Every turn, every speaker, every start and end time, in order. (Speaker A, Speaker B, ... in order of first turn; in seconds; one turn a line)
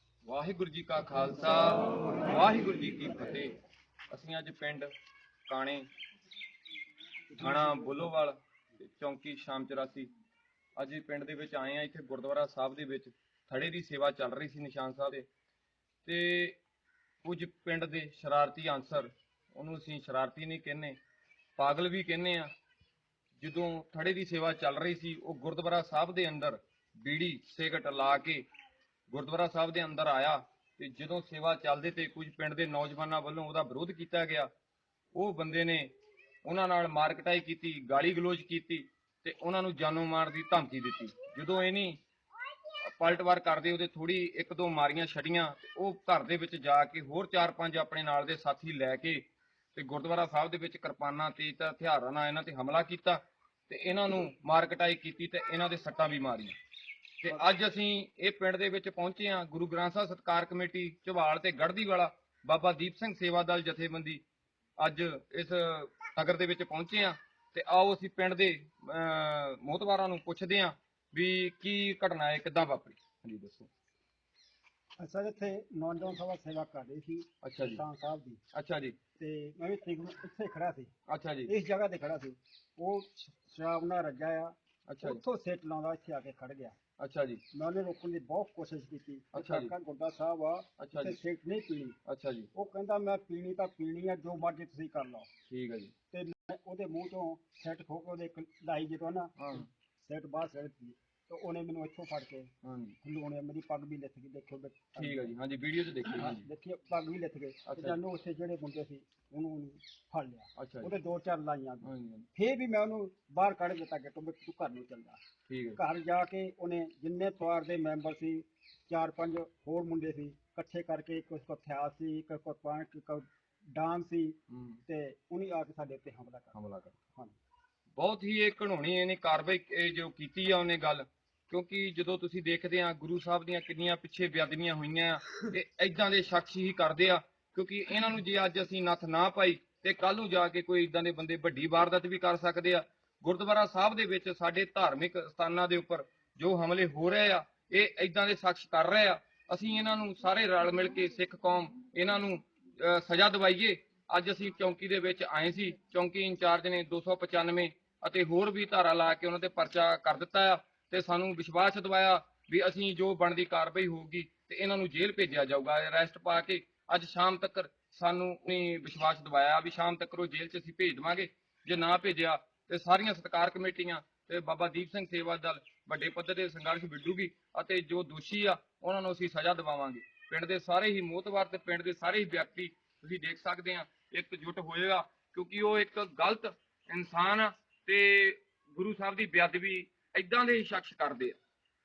Speaker A: 0.2-3.5
Speaker A: 4.1-4.9
Speaker A: 5.5-5.9
Speaker A: 7.3-10.1
Speaker A: 10.8-15.3
Speaker A: 16.1-16.6
Speaker A: 17.2-21.0
Speaker A: 21.6-22.5
Speaker A: 23.4-28.4
Speaker A: 29.1-34.5
Speaker A: 35.1-35.9
Speaker A: 36.5-42.0
Speaker A: 42.7-49.2
Speaker A: 49.7-56.6
Speaker A: 57.2-64.2
Speaker A: 64.8-73.7
Speaker B: 75.0-78.4
Speaker A: 77.4-77.8
Speaker A: 78.5-79.0
Speaker B: 79.2-80.9
Speaker A: 81.1-81.5
Speaker B: 81.5-86.8
Speaker A: 84.9-85.2
Speaker A: 87.0-87.4
Speaker B: 87.5-92.0
Speaker A: 89.3-89.7
Speaker A: 90.8-91.2
Speaker A: 92.1-92.5
Speaker B: 92.5-95.3
Speaker A: 95.5-95.9
Speaker B: 96.1-102.5
Speaker A: 99.4-99.7
Speaker A: 102.6-103.0
Speaker B: 103.0-105.3
Speaker A: 105.0-106.5
Speaker B: 106.1-115.2
Speaker A: 107.7-108.0
Speaker A: 110.6-110.9
Speaker A: 111.8-112.3
Speaker A: 115.5-115.8
Speaker B: 115.8-126.5
Speaker A: 124.5-124.8
Speaker A: 126.5-126.9
Speaker A: 128.0-191.4